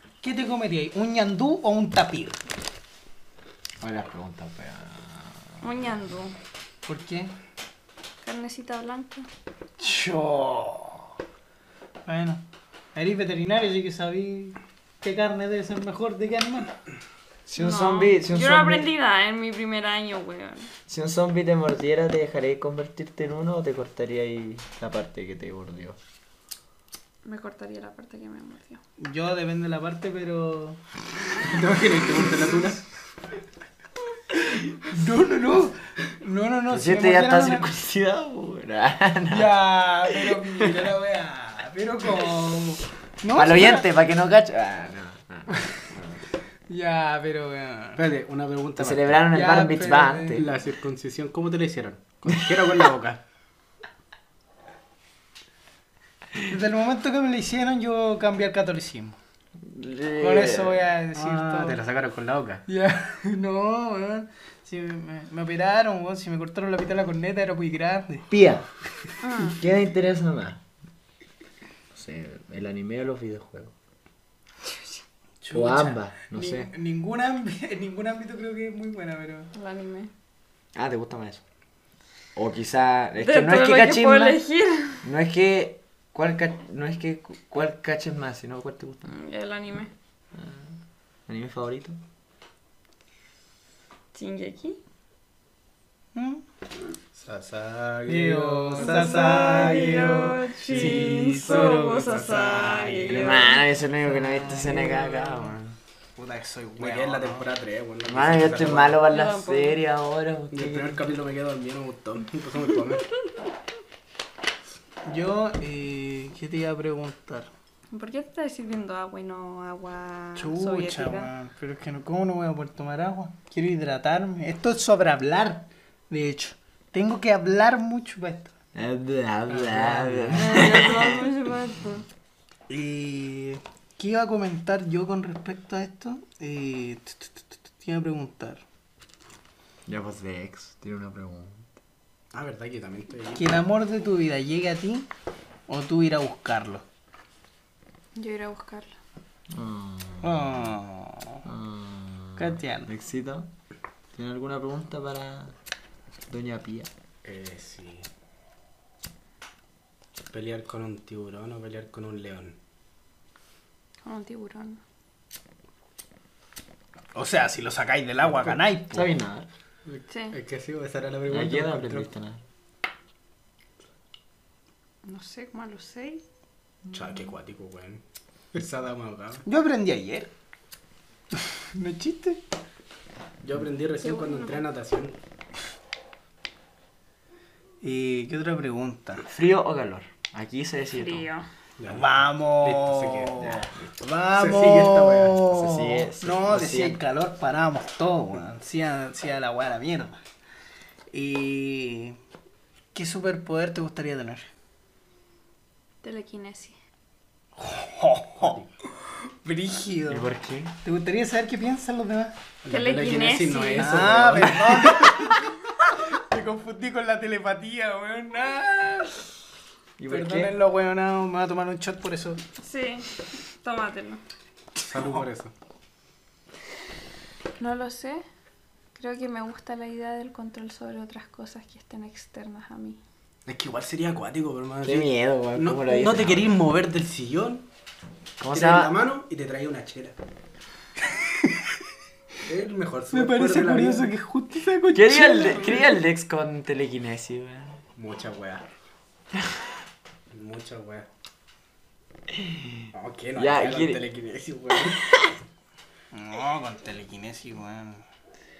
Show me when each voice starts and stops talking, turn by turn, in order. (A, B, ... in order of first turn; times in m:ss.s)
0:00.2-0:02.4 A
0:03.8-0:05.6 B
0:05.6-0:06.4 C
0:06.8-0:07.3 A
0:08.2-0:09.3 C
0:09.8-0:11.0 A
0:12.0-0:12.4 A
0:12.9-0:16.7 A
0:17.5-0:18.9 B
0:17.6-0:20.7 C
0:20.9-0:26.0 B
0:27.2-0:28.8 C
0:29.0-0:30.8 A
0:31.4-0:32.8 D
0:34.9-0:37.7 A
0:36.7-0:40.8 B
0:39.3-0:43.8 A
0:43.3-0:46.2 B
0:46.7-0:48.0 A
0:48.0-0:49.2 D
0:48.8-0:50.5 B
0:49.3-0:50.5 A
0:50.3-0:53.2 D
0:56.4-0:59.2 A
0:59.6-1:00.8 B
1:00.2-1:01.8 A
1:01.1-1:02.6 D
1:02.7-1:08.2 A
1:08.3-1:08.7 B
1:09.2-1:09.6 C
1:09.3-1:10.6 B
1:11.9-1:13.7 B
1:15.4-1:19.5 A
1:15.5-1:16.7 B
1:19.5-1:20.1 C
1:20.7-1:21.4 B
1:22.4-1:24.4 B
1:23.2-1:25.0 C
1:25.0-1:29.1 B
1:29.1-1:29.9 C
1:30.3-1:32.0 B
1:34.1-1:34.8 C
1:36.1-1:36.4 A
1:37.1-1:43.5 D
1:38.1-1:43.5 A
1:38.8-1:43.5 C
1:40.7-1:41.2 B
1:43.1-1:45.8 B
1:44.4-1:44.7 C
1:44.9-1:45.4 A
1:46.2-1:47.5 A
1:46.8-1:49.0 D
1:48.0-1:51.0 B
1:49.1-1:49.8 C
1:50.5-1:53.0 D
1:55.0-1:57.5 A
1:57.9-2:01.3 C
2:00.4-2:08.5 A
2:08.7-2:10.8 B
2:09.5-2:10.6 A
2:10.4-2:12.0 C
2:12.7-2:18.6 A
2:19.9-2:21.7 B
2:22.3-2:23.7 D
2:23.4-2:25.1 A
2:25.7-2:26.8 A
2:28.2-2:28.9 C
2:29.5-2:30.6 B
2:30.2-2:31.4 A
2:31.4-2:33.5 B
2:32.4-2:32.9 A
2:34.1-2:35.5 B
2:36.3-2:36.9 B
2:37.2-2:38.1 D
2:40.3-2:42.5 D
2:44.0-2:44.8 C
2:47.1-2:49.1 A
2:48.9-2:49.5 B
2:49.8-2:52.1 D
2:50.1-2:50.4 C
2:51.3-2:52.4 B
2:55.0-2:56.2 C
2:56.9-2:58.0 D
2:58.5-2:59.4 D
2:59.4-3:00.3 A
3:01.6-3:02.4 A
3:03.4-3:05.2 D
3:04.0-3:04.6 C
3:07.8-3:09.2 A
3:09.3-3:11.3 B
3:10.9-3:11.4 C
3:11.8-3:13.8 D
3:11.9-3:20.2 A
3:14.3-3:15.4 D
3:15.5-3:17.0 B
3:21.1-3:22.2 A
3:22.9-3:24.4 A
3:26.0-3:26.8 C
3:27.6-3:28.6 A
3:28.4-3:28.7 D
3:29.4-3:30.2 A
3:30.1-3:30.7 B
3:30.8-3:32.3 A
3:32.6-3:35.5 D
3:32.7-3:34.1 C
3:33.8-3:35.4 A
3:36.1-3:39.3 A
3:40.0-3:40.5 B
3:40.1-3:42.4 A
3:42.6-3:44.2 C
3:44.8-3:45.5 D
3:47.6-3:48.2 C
3:48.9-3:53.0 C
3:53.4-3:57.6 D
3:54.8-3:56.6 B
3:58.4-3:58.9 B
3:58.5-4:00.2 D
4:02.4-4:04.1 D
4:03.1-4:06.0 A
4:04.9-4:07.8 B
4:08.0-4:08.6 D
4:10.3-4:11.1 D
4:12.3-4:14.0 B
4:12.9-4:15.0 D
4:16.1-4:18.0 A